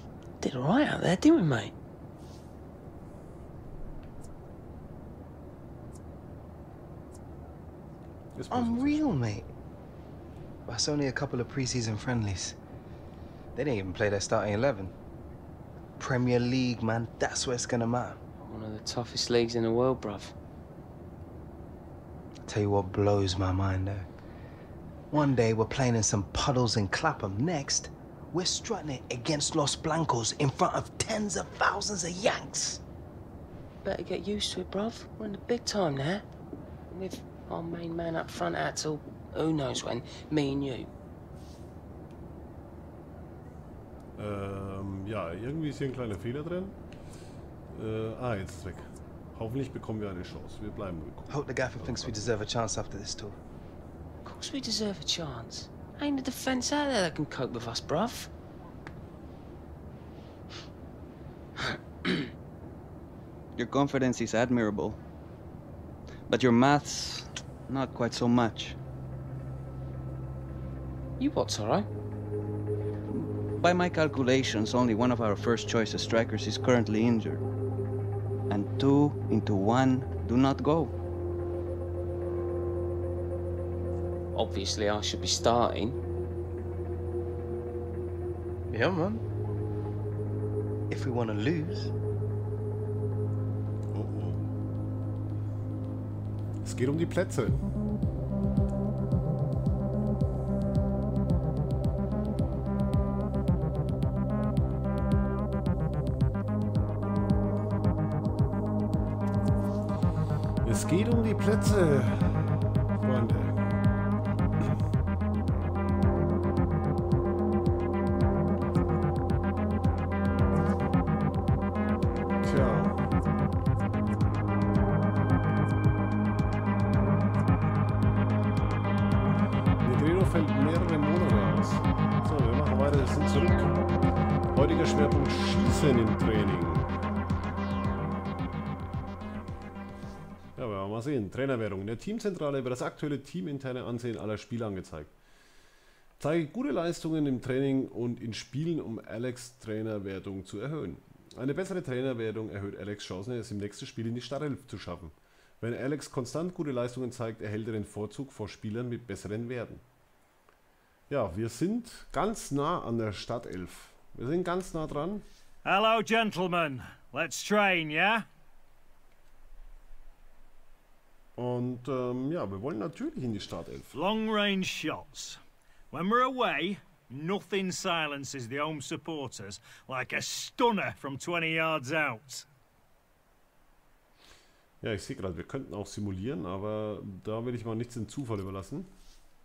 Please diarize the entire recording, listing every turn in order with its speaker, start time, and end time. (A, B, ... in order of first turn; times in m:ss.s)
0:00.4-0:01.7 A
0:08.4-0:09.2 B
0:08.5-0:09.5 C
0:10.7-0:12.6 C
0:13.6-0:14.9 C
0:16.0-0:18.2 C
0:18.4-0:20.3 A
0:22.5-0:24.1 C
0:25.1-0:32.8 C
0:33.8-0:36.2 A
0:36.9-0:40.9 A
0:44.2-0:46.8 B
0:47.7-0:52.3 B
0:51.3-0:53.4 C
0:54.2-0:58.3 A
1:03.6-1:05.0 D
1:06.3-1:08.8 D
1:11.2-1:11.9 A
1:13.1-1:17.4 D
1:18.5-1:20.9 D
1:24.4-1:26.0 A
1:28.7-1:29.2 C
1:30.9-1:31.9 C
1:33.9-1:34.4 B
1:36.6-1:37.6 B
1:50.6-1:53.6 B
2:02.4-2:03.0 B
2:09.8-2:13.8 B
2:14.5-2:17.0 B
2:20.6-2:25.1 B
2:26.2-2:39.8 B
2:41.1-2:45.2 B
2:45.6-2:48.3 E
2:51.4-2:54.0 B
2:53.9-2:55.4 E
2:55.9-3:02.5 E
3:04.8-3:08.9 B